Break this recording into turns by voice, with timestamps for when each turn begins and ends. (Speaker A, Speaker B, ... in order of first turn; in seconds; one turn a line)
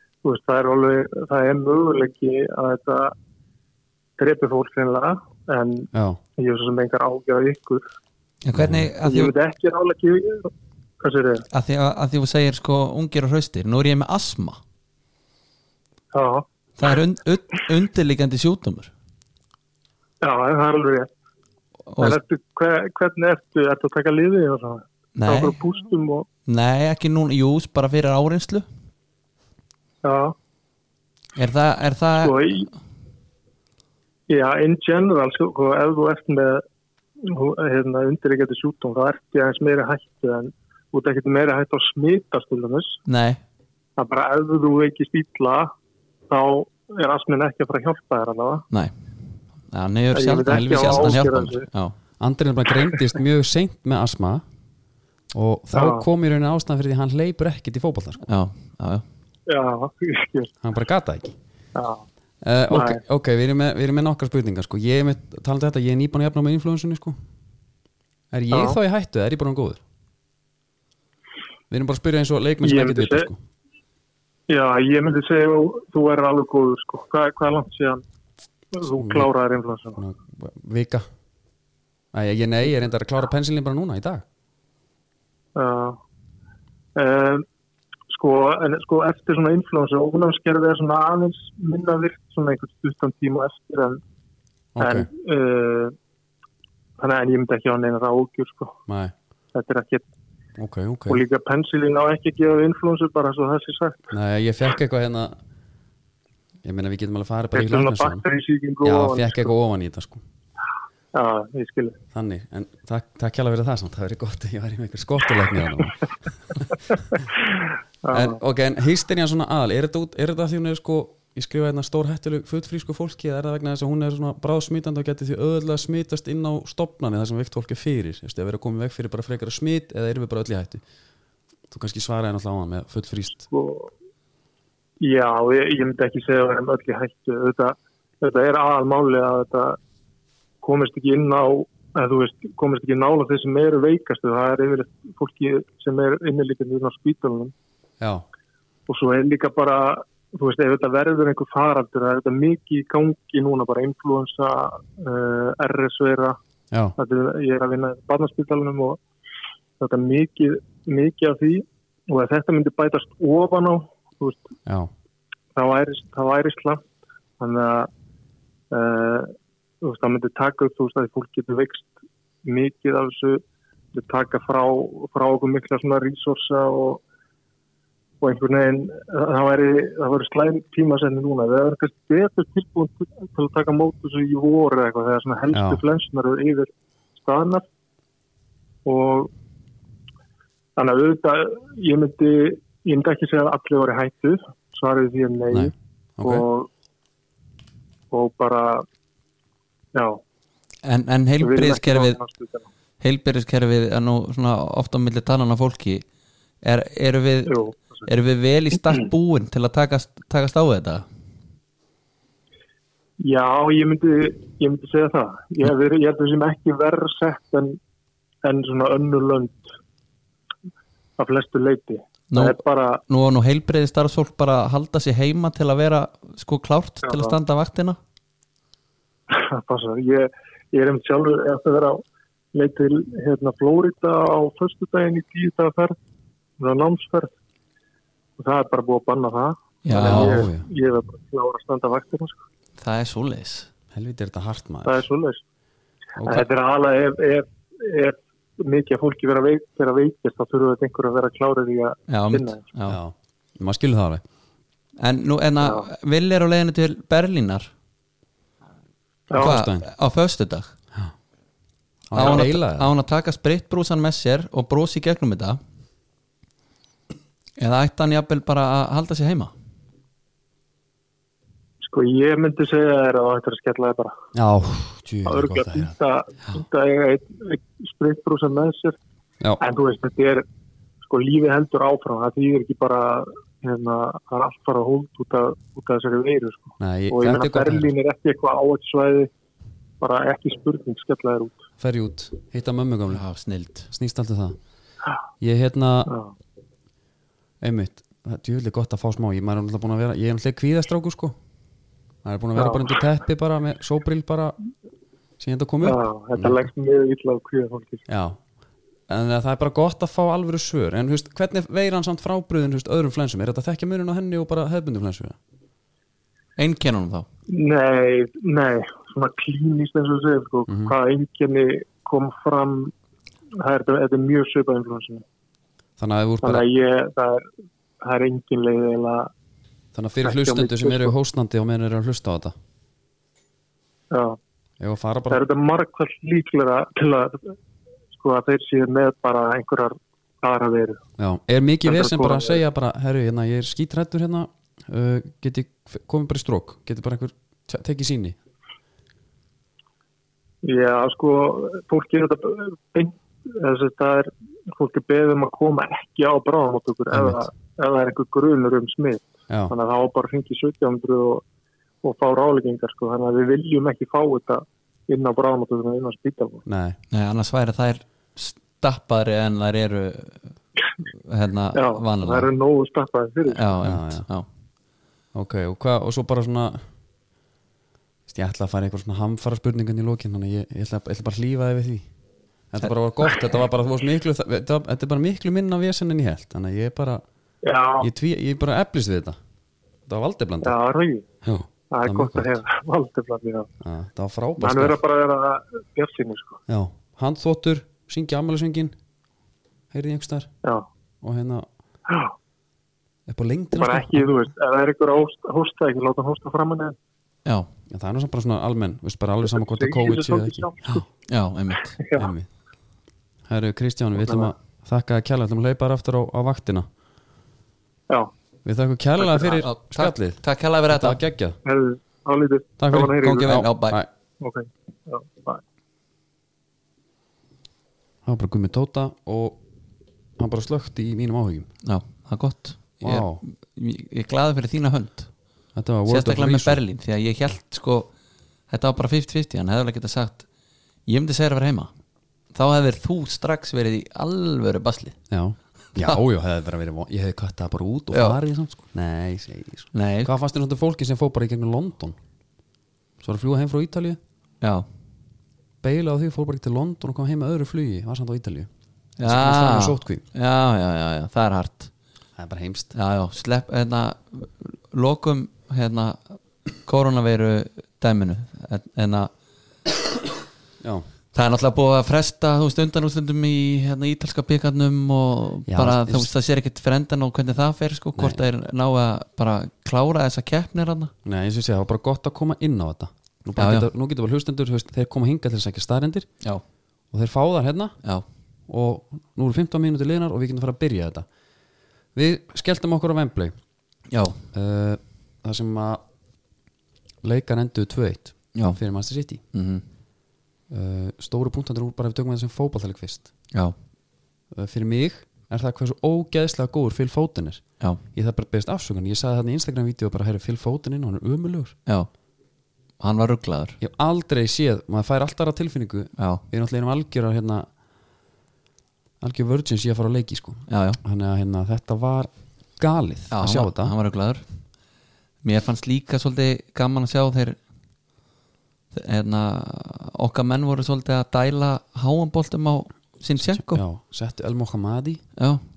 Speaker A: 0.2-3.1
Speaker A: 4.2-7.8
Speaker B: 5.9-6.2
Speaker C: 8.4-9.3
Speaker B: 8.5-8.9
Speaker A: 9.0-11.5
Speaker C: 11.5-14.6
Speaker A: 16.1-17.0
Speaker C: 16.8-18.9
Speaker A: 20.2-21.1
Speaker C: 21.9-22.2
Speaker A: 22.0-26.3
Speaker C: 25.2-25.6
Speaker C: 26.5-28.7
Speaker A: 30.0-30.4
Speaker C: 31.4-32.7
Speaker A: 32.2-32.7
Speaker A: 34.3-36.6
Speaker A: 37.2-43.0
Speaker C: 43.1-43.4
Speaker A: 44.0-45.7
Speaker A: 46.3-48.7
Speaker C: 49.6-52.0
Speaker A: 50.1-51.7
Speaker B: 50.5-51.2
Speaker B: 52.2-54.4
Speaker B: 55.3-58.3
Speaker A: 55.7-56.1
Speaker C: 58.3-59.0
Speaker A: 59.5-60.5
Speaker B: 60.6-61.4
Speaker A: 61.8-62.1
Speaker B: 62.4-67.2
Speaker A: 62.7-63.0
Speaker B: 68.3-69.8
Speaker A: 68.5-68.8
Speaker B: 71.7-73.4
Speaker A: 72.6-73.3
Speaker A: 74.5-78.0
Speaker A: 78.7-80.0
Speaker B: 79.0-79.3
Speaker B: 80.0-81.0
Speaker B: 82.1-84.2
Speaker A: 85.6-86.0
Speaker A: 87.0-87.5
Speaker A: 88.1-94.0
Speaker B: 94.8-95.1
Speaker A: 94.8-96.0
Speaker A: 97.0-98.8
Speaker B: 98.9-99.1
Speaker A: 99.5-100.1
Speaker B: 100.6-101.2
Speaker A: 101.1-104.1
Speaker B: 104.1-105.4
Speaker B: 106.6-108.2
Speaker A: 107.5-109.5
Speaker B: 108.8-110.2
Speaker A: 111.1-112.0
Speaker B: 112.1-116.0
Speaker A: 117.1-118.4
Speaker B: 118.1-130.8
Speaker B: 131.7-133.5
Speaker A: 133.4-133.9
Speaker A: 135.0-139.8
Speaker A: 140.6-147.5
Speaker A: 148.9-156.4
Speaker B: 156.7-157.0
Speaker A: 157.0-159.0
Speaker A: 159.8-164.5
Speaker A: 165.6-166.8
Speaker A: 167.4-167.9
Speaker A: 168.7-173.4
Speaker A: 173.9-177.0
Speaker A: 178.2-187.6
Speaker B: 185.5-185.8
Speaker A: 188.8-189.3
Speaker A: 190.8-196.7
Speaker B: 195.5-196.4
Speaker A: 198.1-198.9
Speaker A: 199.9-200.2
Speaker C: 200.8-202.2
Speaker A: 201.4-202.7
Speaker C: 203.0-206.1
Speaker C: 206.6-211.1
Speaker A: 207.5-208.1
Speaker A: 213.2-217.8
Speaker A: 218.4-219.8
Speaker A: 221.2-223.0
Speaker C: 222.3-228.0
Speaker A: 227.1-227.3
Speaker A: 229.3-232.0
Speaker A: 232.5-236.0
Speaker A: 236.6-237.3
Speaker A: 238.4-242.4
Speaker C: 239.8-240.5
Speaker B: 239.9-240.7
Speaker C: 242.8-243.7
Speaker B: 243.9-245.1
Speaker A: 244.8-245.4
Speaker B: 246.2-246.5
Speaker A: 246.2-252.6
Speaker C: 252.1-253.0
Speaker B: 252.9-254.2
Speaker C: 255.0-257.7
Speaker A: 255.6-255.9
Speaker A: 259.3-259.6
Speaker C: 259.3-260.7
Speaker B: 259.4-259.9
Speaker B: 262.1-262.9
Speaker C: 262.1-265.6
Speaker A: 262.2-262.4
Speaker C: 267.6-269.5
Speaker A: 271.8-274.1
Speaker B: 274.3-275.9
Speaker A: 275.3-279.0
Speaker A: 279.6-280.4
Speaker A: 281.0-289.3
Speaker B: 286.8-287.9
Speaker A: 290.0-291.6
Speaker B: 291.8-293.2
Speaker C: 293.1-293.9
Speaker B: 293.9-294.6
Speaker B: 295.4-296.1
Speaker A: 296.1-296.3
Speaker B: 297.6-301.4
Speaker B: 302.2-304.6
Speaker A: 302.6-302.9
Speaker B: 305.4-306.7
Speaker A: 305.8-308.1
Speaker B: 308.1-308.4
Speaker B: 309.1-315.4
Speaker C: 316.6-317.3
Speaker A: 317.5-322.9
Speaker B: 320.7-320.9
Speaker A: 323.6-325.2
Speaker B: 326.0-326.6
Speaker A: 326.4-327.5
Speaker A: 328.0-329.3
Speaker B: 329.9-332.5
Speaker A: 330.2-331.1
Speaker A: 334.1-334.4
Speaker B: 334.8-335.4
Speaker A: 335.3-337.6
Speaker A: 338.1-341.0
Speaker B: 341.2-348.4
Speaker A: 341.9-342.6
Speaker A: 350.6-361.4
Speaker B: 357.1-357.4
Speaker A: 362.0-366.6
Speaker B: 366.7-367.0
Speaker C: 367.1-370.5
Speaker C: 371.1-372.5
Speaker A: 371.7-373.7
Speaker C: 373.5-374.5
Speaker B: 373.8-374.3
Speaker B: 375.3-376.8
Speaker B: 378.3-382.1
Speaker B: 382.7-387.2
Speaker A: 387.6-388.1
Speaker B: 388.0-389.4
Speaker B: 390.1-390.8
Speaker A: 390.6-391.3
Speaker B: 391.4-392.6
Speaker A: 391.9-393.7
Speaker B: 393.8-395.0
Speaker A: 394.6-396.6
Speaker B: 396.7-399.0
Speaker B: 399.9-400.5
Speaker B: 401.2-401.7
Speaker A: 402.1-402.3
Speaker B: 403.3-404.3
Speaker A: 403.7-407.0
Speaker B: 407.9-411.1
Speaker A: 409.5-411.0
Speaker C: 411.3-412.0
Speaker A: 412.0-412.3
Speaker B: 412.2-412.5
Speaker B: 413.5-416.9
Speaker A: 414.2-414.5
Speaker B: 418.6-421.6
Speaker C: 419.3-421.2
Speaker A: 421.6-423.6
Speaker B: 422.8-424.1
Speaker C: 423.1-424.0
Speaker A: 424.4-425.6
Speaker B: 428.2-429.6
Speaker B: 430.4-431.7
Speaker C: 431.8-435.3
Speaker B: 433.0-433.4
Speaker B: 435.8-436.8
Speaker C: 436.1-438.1
Speaker C: 438.7-440.4
Speaker C: 441.1-441.9
Speaker C: 442.5-445.2
Speaker B: 445.3-452.2
Speaker C: 448.1-448.4
Speaker C: 449.9-450.3
Speaker B: 453.2-454.2
Speaker C: 454.6-454.9
Speaker B: 455.8-458.7
Speaker C: 459.2-461.9
Speaker B: 459.2-460.2
Speaker B: 462.4-462.9
Speaker C: 462.9-469.3
Speaker B: 470.8-471.1
Speaker C: 471.3-481.1
Speaker B: 475.7-476.3
Speaker B: 478.2-478.4
Speaker B: 481.2-486.3
Speaker C: 483.6-483.9
Speaker B: 487.1-487.9
Speaker B: 488.7-491.3
Speaker B: 492.1-493.5
Speaker C: 494.1-494.4
Speaker B: 494.5-496.0
Speaker B: 497.2-499.4
Speaker C: 499.5-499.8
Speaker B: 500.7-503.3
Speaker B: 504.5-511.8
Speaker C: 513.0-513.8
Speaker B: 513.8-517.7
Speaker B: 519.2-524.0
Speaker C: 520.7-521.0
Speaker C: 523.3-524.4
Speaker C: 525.4-527.6
Speaker C: 528.9-533.8
Speaker B: 533.4-535.2
Speaker C: 535.4-535.6